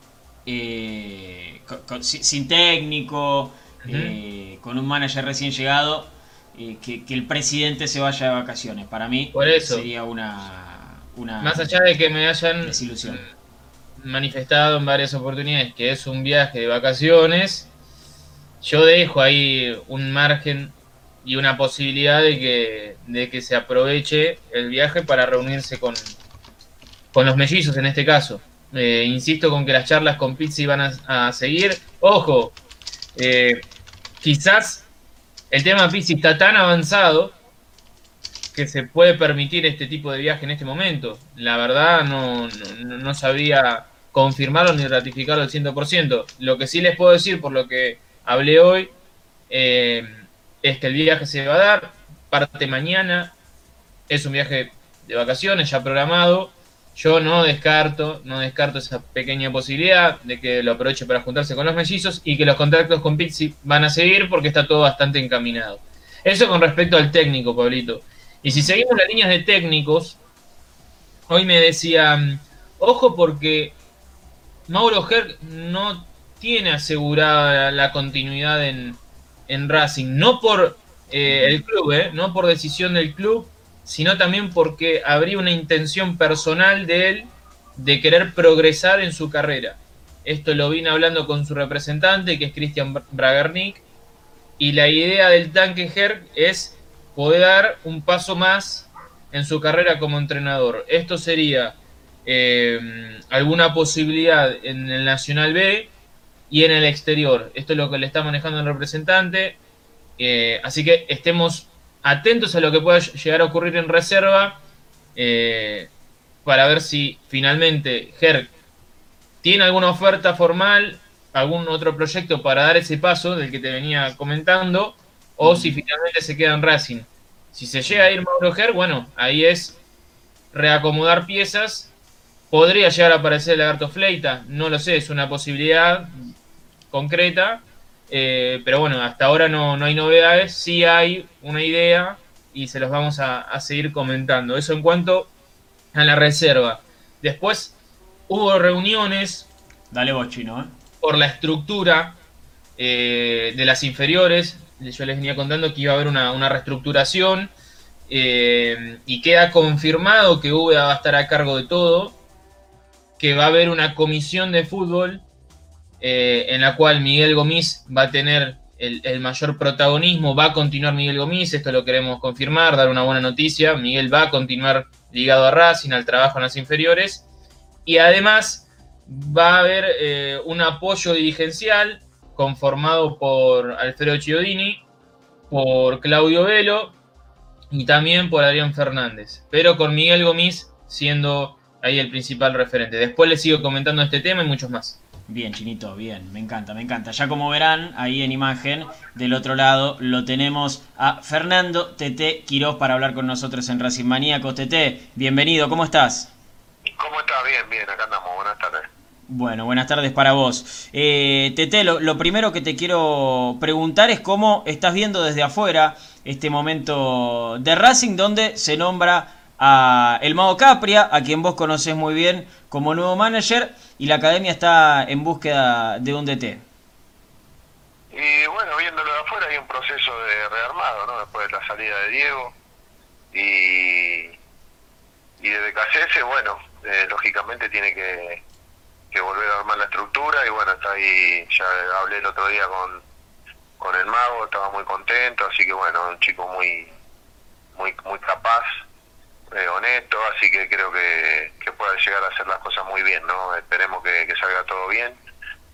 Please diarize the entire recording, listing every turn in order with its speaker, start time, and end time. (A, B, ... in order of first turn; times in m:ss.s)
0:00.4-0:11.8 A
0:03.8-0:04.2 B
0:09.3-0:09.8 B
0:11.4-0:13.3 B
0:12.6-0:13.2 A
0:14.0-0:17.7 B
0:18.6-0:26.1 B
0:27.1-0:32.5 B
0:33.2-0:33.6 B
0:34.2-0:34.8 B
0:35.5-0:37.3 B
0:38.5-0:48.9 B
0:49.5-0:53.3 B
0:54.1-1:10.2 B
1:08.5-1:08.8 A
1:11.3-1:13.8 B
1:14.7-1:33.8 B
1:21.3-1:21.6 A
1:34.6-1:45.9 B
1:46.5-1:49.6 B
1:50.2-1:54.6 B
1:55.2-1:55.9 B
1:56.4-1:58.5 B
1:59.4-2:09.8 B
2:05.4-2:05.8 A
2:10.5-2:11.9 B
2:12.5-2:16.3 B
2:16.9-2:25.3 B
2:25.9-2:27.7 B
2:28.3-2:29.5 B
2:29.9-2:30.7 A
2:31.0-2:32.2 B
2:32.8-2:37.5 B
2:38.1-2:42.2 B
2:43.2-2:45.2 B
2:46.0-2:57.2 B
2:57.8-3:04.8 B
3:05.5-3:06.9 B
3:07.7-3:15.0 B
3:15.3-3:26.3 A
3:27.0-3:28.9 C
3:29.3-3:46.6 A
3:48.1-3:52.5 C
3:53.3-3:54.4 C
3:55.4-3:58.4 C
3:59.1-4:03.0 C
4:03.8-4:06.9 C
4:07.7-4:08.8 C
4:09.5-4:15.2 C